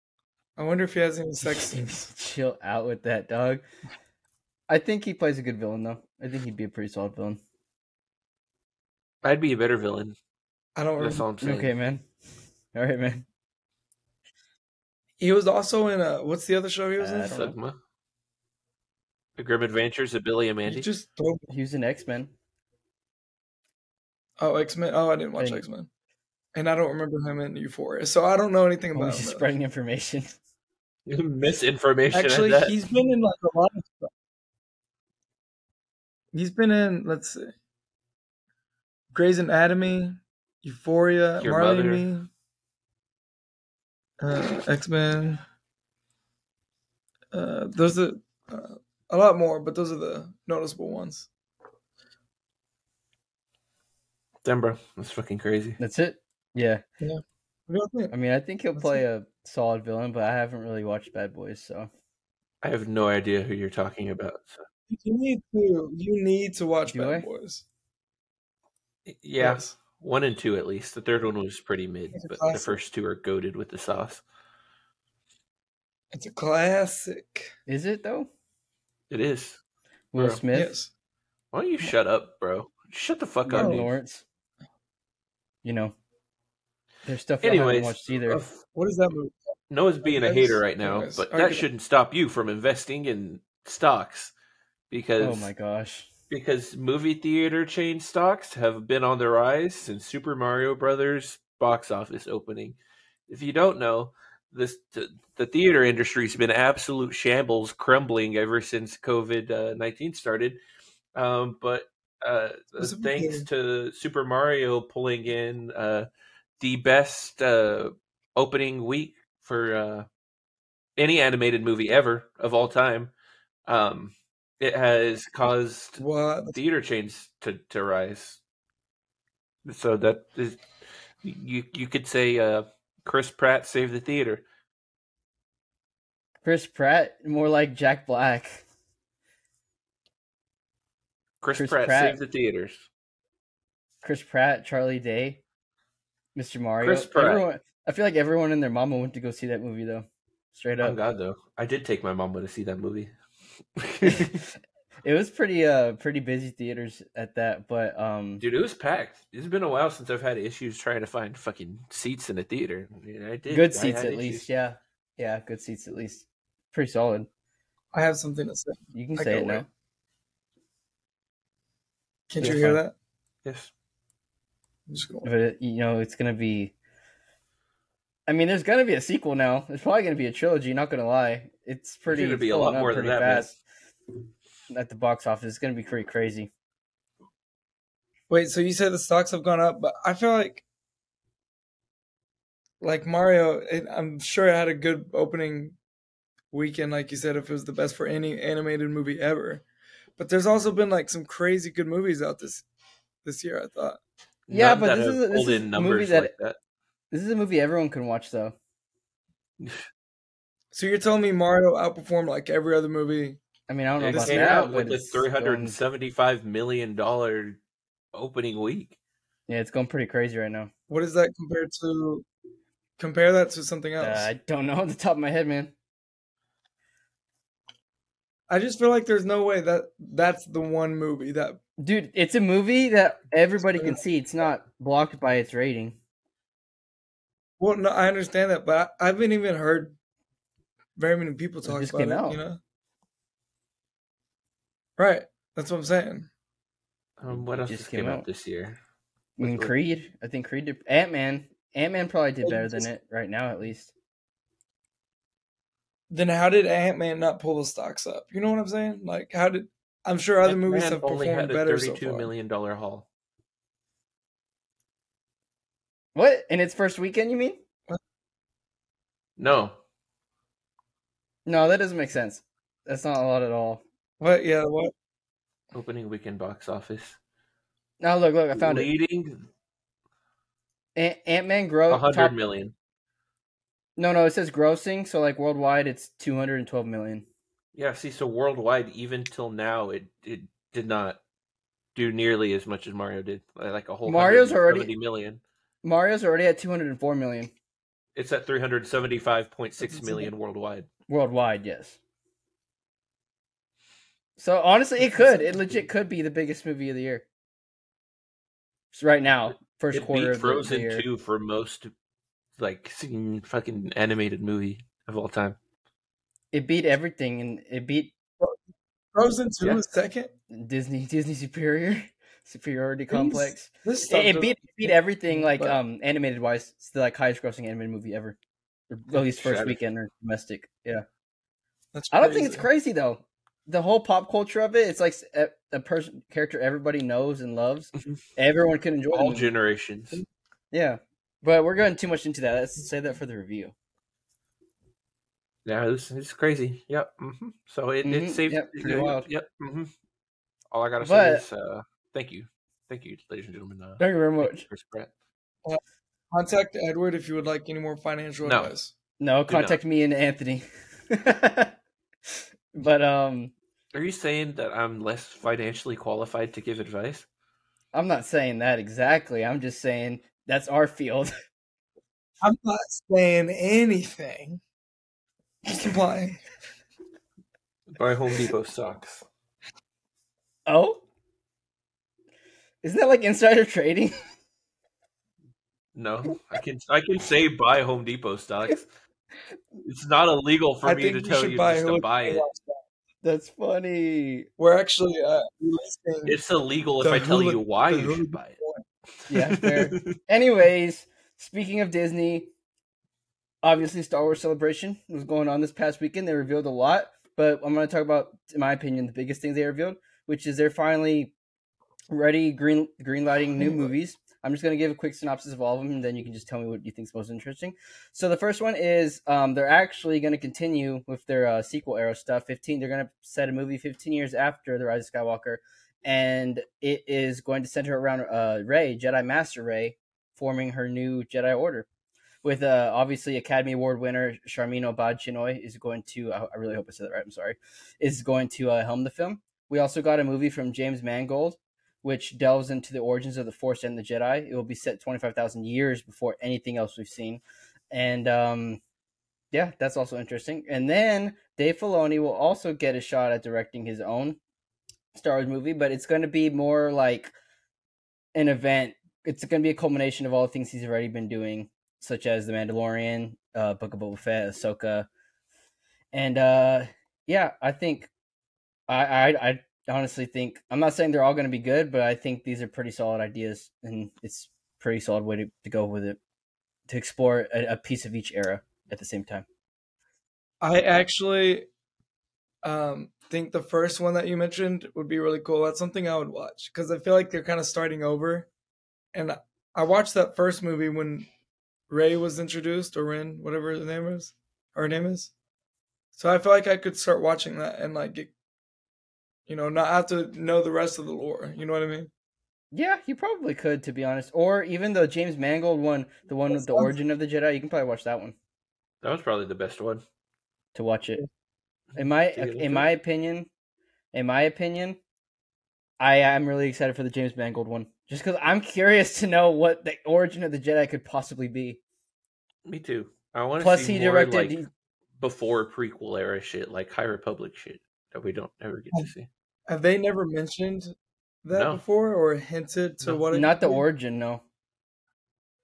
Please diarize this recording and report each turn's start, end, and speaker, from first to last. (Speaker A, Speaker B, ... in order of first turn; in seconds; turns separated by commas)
Speaker A: 0.6-2.1, Speaker B: 1.5-3.6, Speaker B: 4.7-7.4, Speaker C: 9.2-10.1, Speaker A: 10.8-11.2, Speaker C: 11.0-11.7, Speaker B: 11.4-12.0, Speaker B: 12.7-13.2, Speaker A: 15.2-17.4, Speaker B: 17.0-17.6, Speaker C: 17.2-17.8, Speaker C: 19.4-20.9, Speaker A: 20.6-21.5, Speaker B: 21.5-22.3, Speaker A: 24.4-25.9, Speaker B: 25.4-25.6, Speaker A: 26.5-29.5, Speaker B: 28.9-30.3, Speaker C: 31.1-32.7, Speaker A: 32.1-34.1, Speaker A: 36.3-37.5, Speaker A: 39.1-42.3, Speaker C: 41.4-42.1, Speaker A: 44.2-45.4, Speaker A: 47.3-51.3, Speaker C: 54.4-55.8, Speaker B: 55.8-56.8, Speaker A: 57.0-58.1, Speaker B: 58.1-61.9, Speaker A: 58.7-59.0, Speaker C: 62.6-64.6, Speaker A: 64.9-67.6, Speaker B: 66.8-67.3, Speaker C: 69.0-74.2, Speaker A: 69.4-69.7, Speaker A: 72.1-72.8, Speaker A: 76.1-77.5, Speaker B: 77.7-78.3, Speaker C: 79.1-79.6, Speaker B: 80.1-80.7, Speaker C: 80.1-80.4, Speaker A: 80.5-80.9, Speaker C: 81.5-83.9, Speaker B: 83.5-84.2, Speaker A: 83.5-83.8, Speaker B: 85.6-85.9, Speaker B: 87.0-88.4, Speaker C: 87.4-88.6, Speaker A: 88.7-89.5, Speaker C: 89.7-94.3, Speaker A: 90.0-91.7, Speaker C: 94.9-95.5, Speaker B: 95.2-96.1, Speaker C: 96.3-102.8, Speaker C: 103.3-110.6, Speaker C: 111.1-116.1, Speaker A: 112.8-113.5, Speaker C: 116.6-120.1, Speaker C: 121.0-123.1, Speaker C: 123.7-128.4, Speaker A: 126.0-126.6, Speaker C: 129.6-130.6, Speaker C: 131.2-134.4, Speaker B: 136.4-138.6, Speaker C: 141.4-142.8, Speaker B: 141.5-142.2, Speaker B: 144.0-145.4, Speaker B: 146.3-151.0, Speaker C: 146.8-147.4, Speaker C: 150.8-153.1, Speaker C: 153.8-154.4, Speaker B: 154.0-154.5, Speaker B: 155.0-158.4, Speaker C: 158.4-164.5, Speaker B: 163.5-167.3, Speaker A: 167.9-169.6, Speaker B: 168.9-169.7, Speaker A: 172.3-172.9, Speaker B: 172.4-172.8, Speaker C: 173.4-173.7, Speaker A: 174.9-175.3, Speaker B: 175.2-176.7, Speaker B: 178.3-183.6, Speaker C: 182.1-183.6, Speaker B: 184.7-186.5, Speaker A: 188.3-190.6, Speaker A: 192.8-195.8, Speaker A: 196.5-199.6, Speaker A: 200.2-202.6, Speaker A: 203.2-204.0, Speaker C: 204.5-206.6, Speaker B: 204.5-206.3, Speaker B: 207.1-208.6, Speaker C: 209.6-209.8, Speaker A: 210.7-213.4, Speaker B: 213.7-215.8, Speaker C: 214.0-217.6, Speaker A: 214.2-214.7, Speaker C: 218.1-219.0, Speaker B: 219.5-220.7, Speaker A: 220.9-222.2, Speaker A: 223.0-224.3, Speaker B: 224.0-225.7, Speaker A: 228.5-231.6, Speaker B: 231.8-236.0, Speaker A: 233.7-234.0, Speaker A: 237.6-239.9, Speaker A: 240.9-242.6, Speaker B: 241.7-242.4, Speaker A: 245.0-246.3, Speaker C: 247.2-248.8, Speaker B: 247.5-248.2, Speaker C: 249.4-249.7, Speaker B: 249.4-253.9, Speaker A: 252.4-252.9, Speaker A: 256.1-262.3, Speaker C: 260.4-263.1, Speaker B: 266.1-267.6, Speaker C: 269.4-269.8, Speaker B: 271.4-273.8, Speaker A: 274.2-274.9, Speaker C: 275.7-277.2, Speaker B: 278.0-278.9, Speaker C: 278.5-279.5, Speaker B: 280.9-282.3, Speaker C: 281.9-282.7, Speaker B: 284.0-287.2, Speaker C: 287.7-291.2, Speaker C: 291.9-295.4, Speaker B: 294.1-294.9, Speaker B: 295.8-297.5, Speaker C: 298.1-300.9, Speaker A: 299.8-300.3, Speaker B: 301.1-302.0, Speaker B: 304.4-307.2, Speaker B: 308.9-311.0, Speaker C: 309.9-311.9, Speaker C: 312.6-315.6, Speaker B: 316.5-318.1, Speaker A: 319.1-320.3, Speaker B: 320.5-328.4, Speaker A: 323.1-325.8, Speaker B: 328.9-331.0, Speaker C: 329.1-329.8, Speaker A: 331.9-332.7, Speaker B: 332.1-339.5, Speaker C: 339.1-340.2, Speaker B: 340.7-343.7, Speaker C: 345.6-349.9, Speaker B: 348.0-349.3, Speaker C: 350.7-355.1, Speaker B: 351.0-351.4, Speaker B: 354.0-354.6, Speaker A: 356.3-358.9, Speaker C: 358.4-358.7, Speaker B: 359.2-361.7, Speaker C: 359.5-359.8, Speaker B: 362.7-363.5, Speaker C: 363.9-367.2, Speaker B: 367.9-371.3, Speaker A: 372.4-374.6, Speaker A: 375.8-376.4, Speaker C: 377.9-379.2, Speaker B: 380.7-381.0, Speaker B: 382.8-384.1, Speaker C: 385.9-388.8, Speaker C: 389.8-392.4, Speaker A: 390.8-392.8, Speaker B: 393.2-394.5, Speaker A: 394.6-396.4, Speaker C: 396.3-398.6, Speaker A: 397.0-398.8, Speaker B: 399.3-402.5, Speaker C: 399.3-400.1, Speaker B: 403.6-411.3, Speaker B: 412.1-431.9, Speaker A: 413.6-413.9, Speaker B: 432.4-448.8, Speaker B: 449.5-454.4, Speaker B: 455.1-457.3, Speaker B: 458.3-465.1, Speaker B: 466.1-468.1, Speaker B: 468.9-476.2, Speaker B: 476.9-479.4, Speaker A: 480.6-481.7, Speaker A: 482.6-488.5, Speaker A: 489.1-491.3, Speaker A: 491.9-495.3, Speaker A: 496.1-498.3, Speaker A: 499.5-502.1, Speaker B: 502.7-508.4, Speaker A: 506.5-507.0, Speaker C: 509.0-510.0, Speaker B: 510.7-511.2, Speaker B: 511.9-513.5, Speaker C: 512.3-512.9, Speaker B: 514.1-515.0, Speaker B: 516.0-521.8, Speaker C: 522.6-524.6, Speaker B: 523.6-524.7, Speaker C: 525.2-529.3, Speaker A: 529.7-530.9, Speaker A: 531.4-533.9, Speaker C: 531.5-531.8, Speaker B: 533.3-534.4